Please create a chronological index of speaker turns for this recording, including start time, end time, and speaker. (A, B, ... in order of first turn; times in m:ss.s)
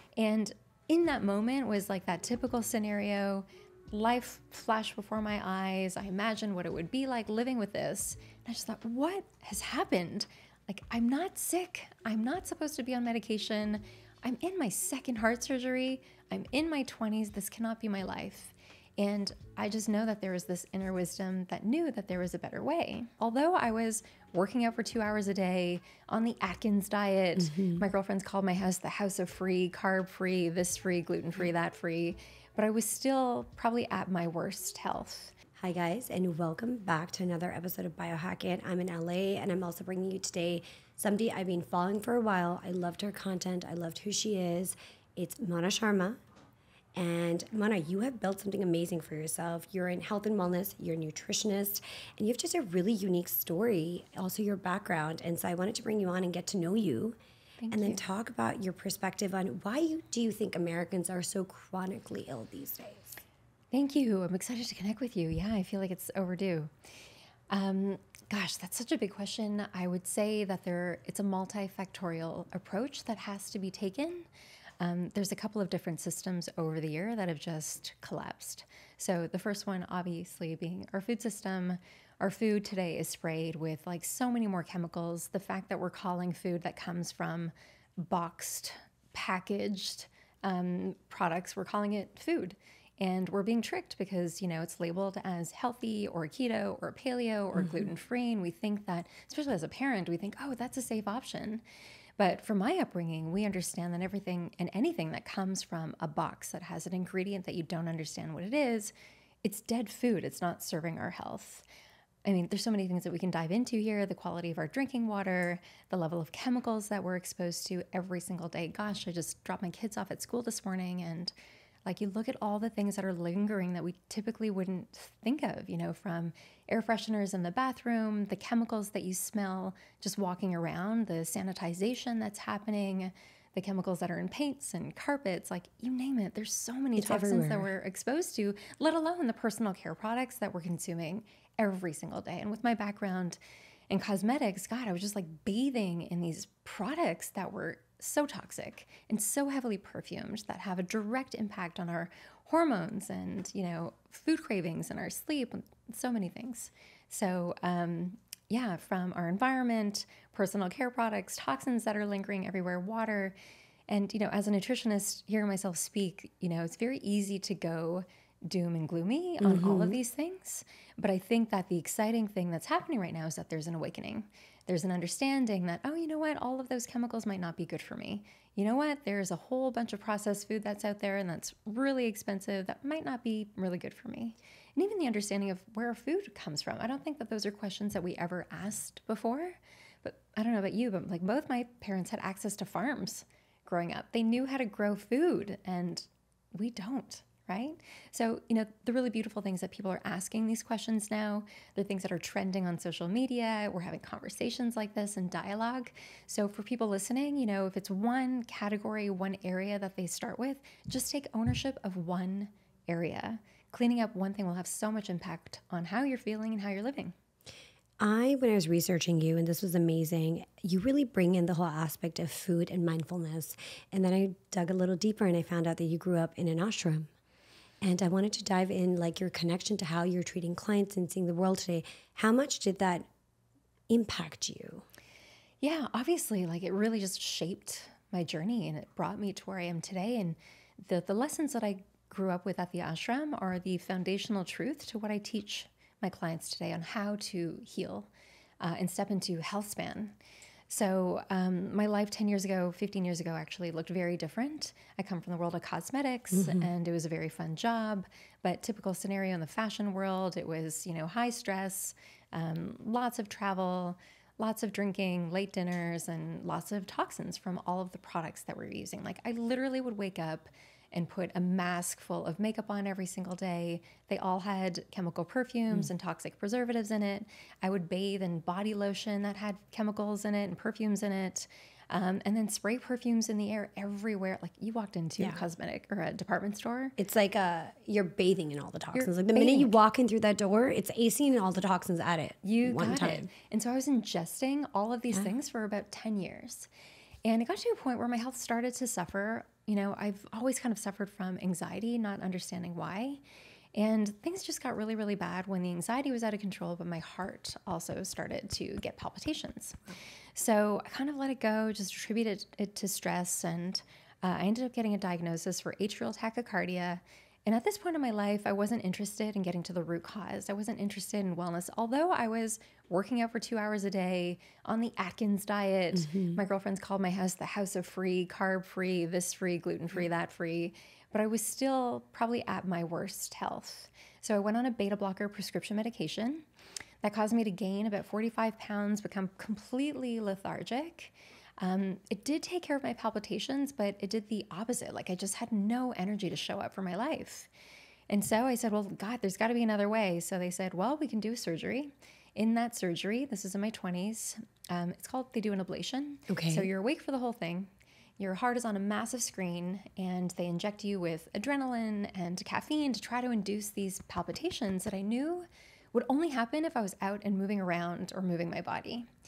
0:00.2-0:35.3 A
0:27.4-0:27.8 B
0:35.6-0:46.2 B
0:46.9-0:57.2 B
0:57.6-0:58.0 A
0:57.7-1:03.2 B
1:03.7-1:06.7 A
1:07.5-1:14.3 A
1:14.8-1:41.6 A
1:42.2-1:51.6 A
1:52.2-2:01.3 A
2:01.8-2:23.4 A
2:17.0-2:17.7 B
2:23.9-2:43.4 A
2:43.9-3:37.1 A
2:49.4-2:50.0 B
3:38.0-3:47.1 B
3:47.8-3:53.1 B
3:53.9-3:54.8 B
3:55.6-4:08.1 A
4:08.6-4:10.2 A
4:10.7-4:47.0 A
4:16.3-4:16.7 B
4:47.0-4:53.3 B
4:48.9-4:49.7 A
4:52.4-4:56.7 A
4:57.2-5:03.2 A
5:03.7-5:09.8 A
5:10.3-5:36.4 A
5:25.9-5:26.4 B
5:37.0-5:47.5 A
5:48.1-6:09.1 A
5:56.3-5:56.7 B